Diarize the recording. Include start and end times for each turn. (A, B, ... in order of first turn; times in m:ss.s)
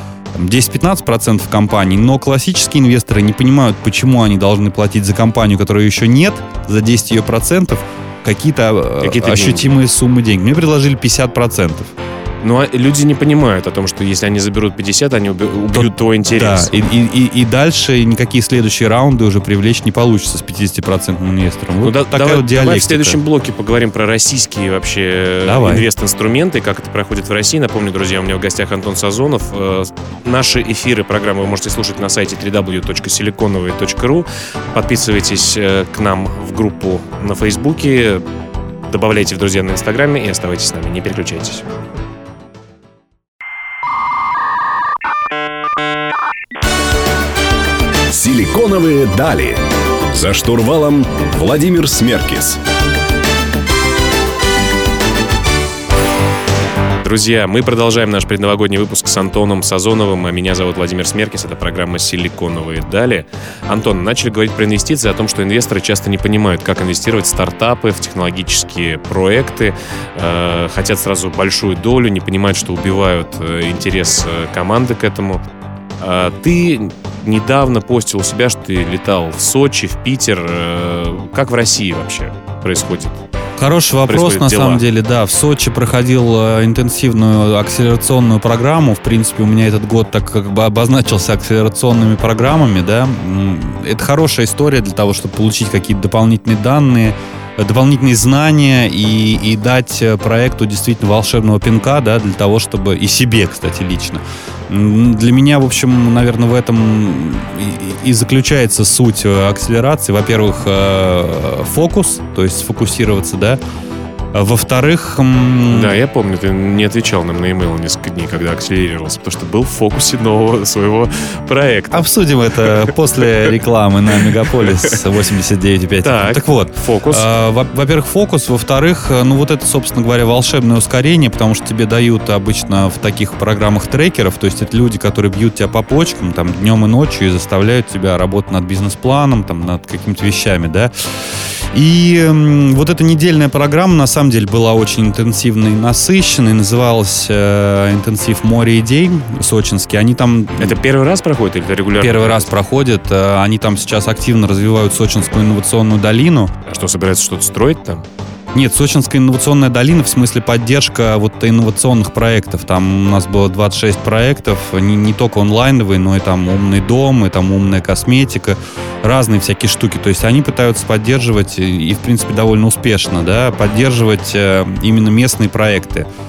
0:00.3-0:11.9 A
0:09.0-0:09.8 B
0:12.4-0:16.8 B
0:15.7-0:23.2 A
0:21.8-0:38.2 B
0:25.5-0:25.9 A
0:38.9-0:41.7 B
0:48.1-0:52.6 C
0:57.0-1:15.4 B
1:16.0-1:23.2 B
1:23.6-1:53.6 A
1:24.1-1:24.8 B
1:54.3-1:56.0 A
1:55.7-2:02.9 B
2:01.9-2:30.8 A
2:04.2-2:04.9 B
2:06.0-2:07.3 B
2:30.6-2:32.5 B
2:32.0-2:36.5 A
2:36.7-2:38.0 B
2:38.5-2:56.1 A